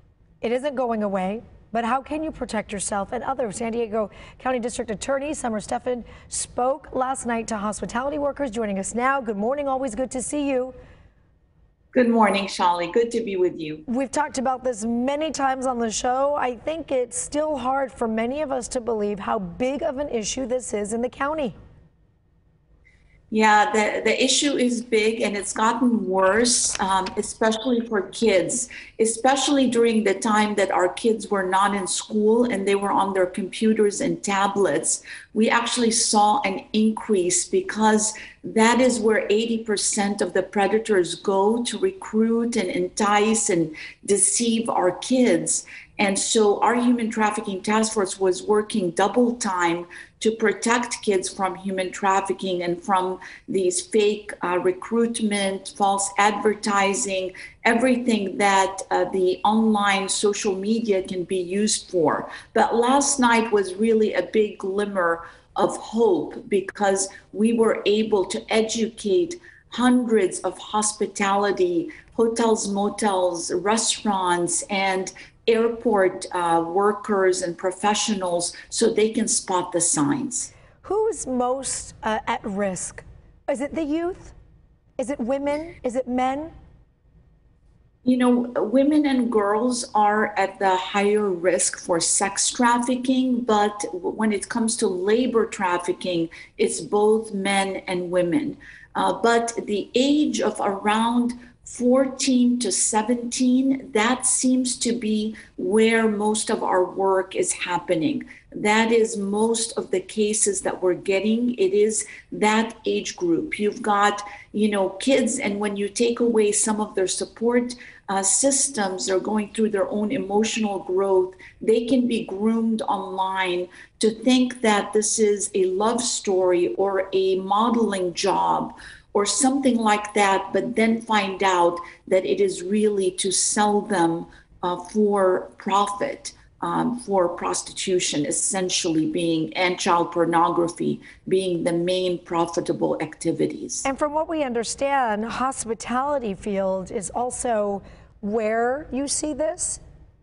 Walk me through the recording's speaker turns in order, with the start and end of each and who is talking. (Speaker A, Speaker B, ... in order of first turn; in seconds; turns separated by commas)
Speaker A: 0.4-10.7, Speaker B: 11.9-13.8, Speaker A: 13.9-21.5, Speaker B: 23.3-80.5, Speaker A: 80.8-84.3, Speaker A: 85.0-86.5, Speaker B: 88.0-143.9, Speaker A: 143.8-149.8